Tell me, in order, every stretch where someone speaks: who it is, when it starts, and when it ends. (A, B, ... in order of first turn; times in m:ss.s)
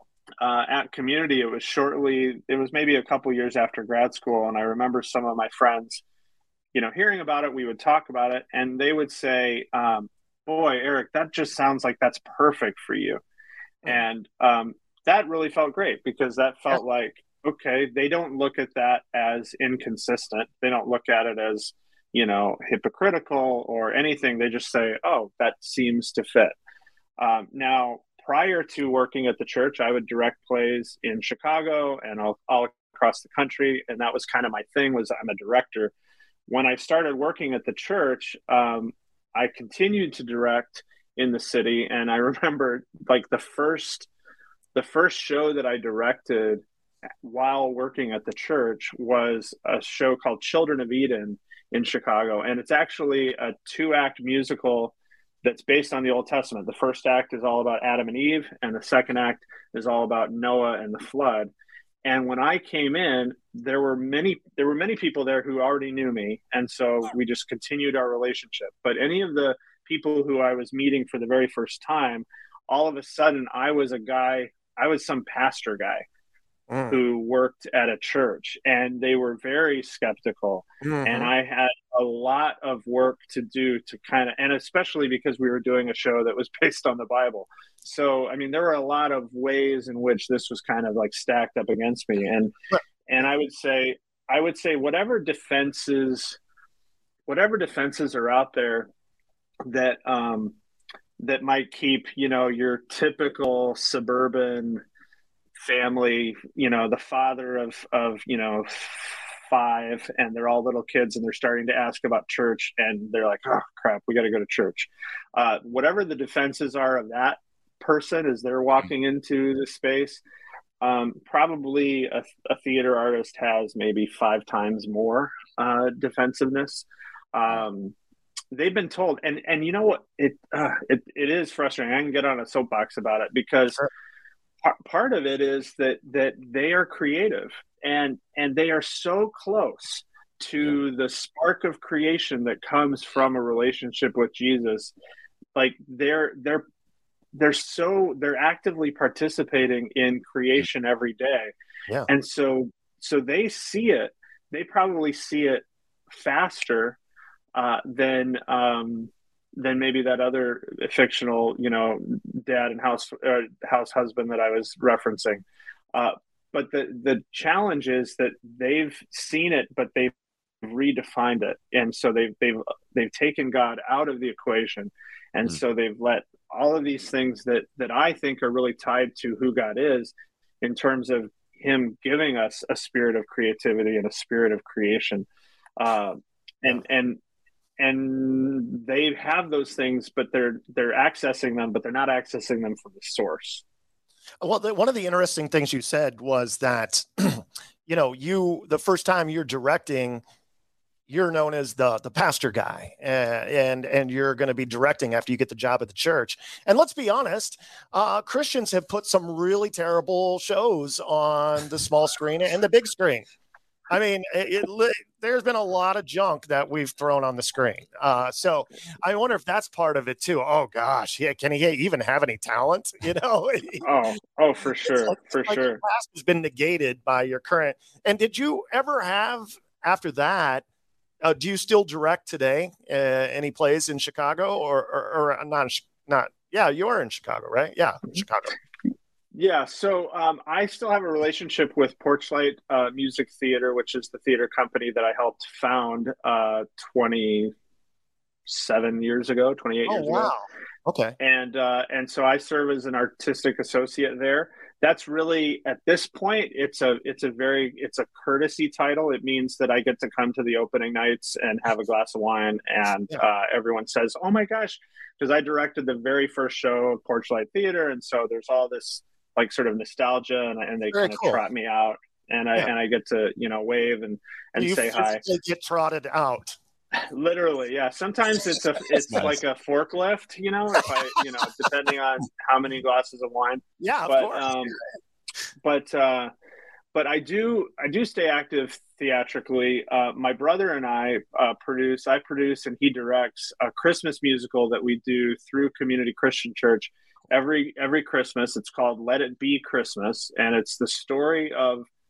0:00.4-0:06.0 A
0:06.7-0:13.2 A
0:13.8-0:26.6 A
0:27.2-0:35.9 A
0:36.5-0:44.1 A
0:44.7-0:46.6 A
0:47.2-1:01.5 A
1:02.0-1:16.0 A
1:16.7-1:17.0 B
1:16.9-1:32.5 A
1:20.8-1:21.3 B
1:33.0-1:36.4 A
1:37.3-1:38.9 A
1:39.6-1:40.5 A
1:41.2-1:44.8 A
1:45.6-2:00.2 A
2:00.8-2:07.9 A
2:08.5-2:13.8 A
2:14.6-2:24.9 A
2:25.5-2:26.6 A
2:27.3-2:31.5 A
2:32.1-2:37.0 A
2:37.5-3:05.3 A
3:05.8-3:07.2 A
3:07.8-3:13.6 A
3:14.4-3:20.2 B
3:21.1-3:33.2 B
3:33.9-3:43.8 B
3:43.8-3:45.8 A
3:44.9-3:50.6 B
3:51.2-3:58.5 B
3:59.3-4:07.5 A
4:08.5-4:10.3 A
4:09.9-4:11.2 B
4:11.2-4:35.2 A
4:30.9-4:31.4 B
4:34.6-4:36.6 B
4:37.0-4:44.8 A
4:43.8-4:44.8 B
4:45.6-4:46.3 A
4:46.9-5:01.8 A